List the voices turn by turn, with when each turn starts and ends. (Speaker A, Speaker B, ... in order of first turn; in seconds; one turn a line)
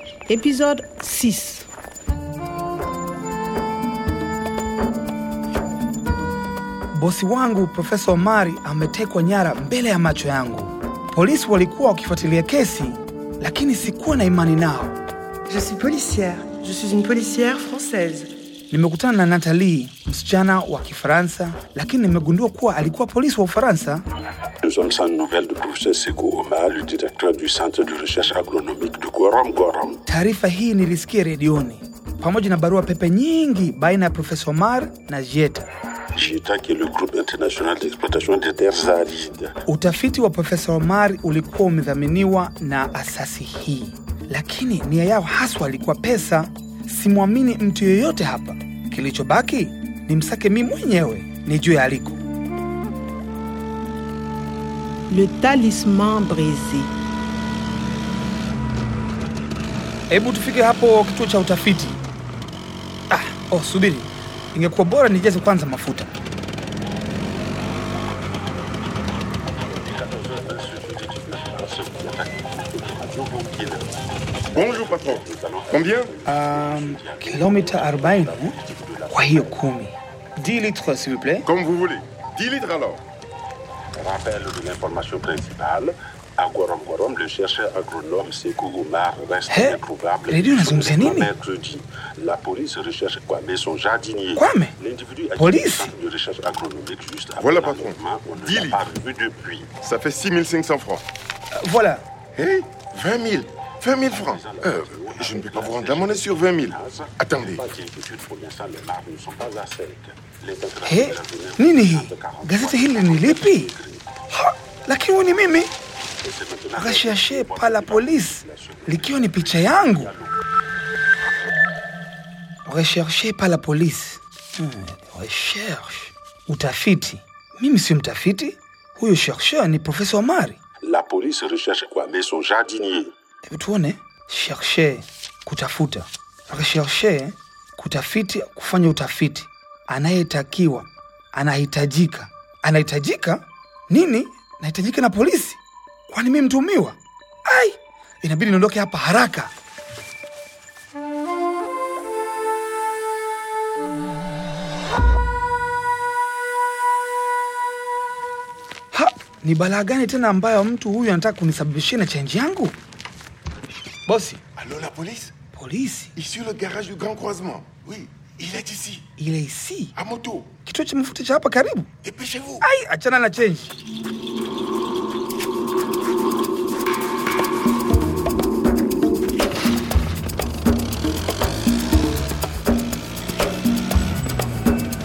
Speaker A: 0.3-1.7
Speaker B: 6.9-15.0
Speaker C: 15.5-18.3
Speaker B: 18.7-24.0
Speaker D: 24.6-30.0
Speaker B: 30.1-35.6
Speaker D: 36.1-39.5
Speaker B: 39.7-52.2
Speaker A: 55.1-56.9
Speaker B: 60.1-62.0
Speaker B: 63.1-66.1
Speaker D: 69.7-73.9
Speaker D: 74.5-79.5
Speaker E: 74.5-76.1
Speaker B: 76.2-78.5
Speaker B: 79.1-81.5
Speaker E: 81.5-83.0
Speaker D: 84.0-99.7
Speaker B: 89.5-91.3
Speaker B: 94.3-94.7
Speaker B: 95.3-95.9
Speaker E: 97.4-98.8
Speaker E: 99.8-101.0
Speaker B: 101.5-102.0
Speaker E: 102.3-107.7
Speaker D: 104.1-114.0
Speaker B: 110.8-113.7
Speaker B: 114.3-115.7
Speaker D: 116.2-120.3
Speaker B: 116.7-120.1
Speaker B: 122.7-130.6
Speaker D: 130.8-133.1
Speaker B: 133.4-149.5
Speaker B: 158.9-162.8
Speaker B: 164.1-164.4
Speaker E: 164.6-165.3
Speaker B: 165.5-166.1
Speaker E: 166.2-169.0
Speaker B: 169.2-169.9
Speaker E: 169.9-170.5
Speaker B: 170.6-171.9
Speaker E: 172.0-172.6
Speaker B: 172.6-173.7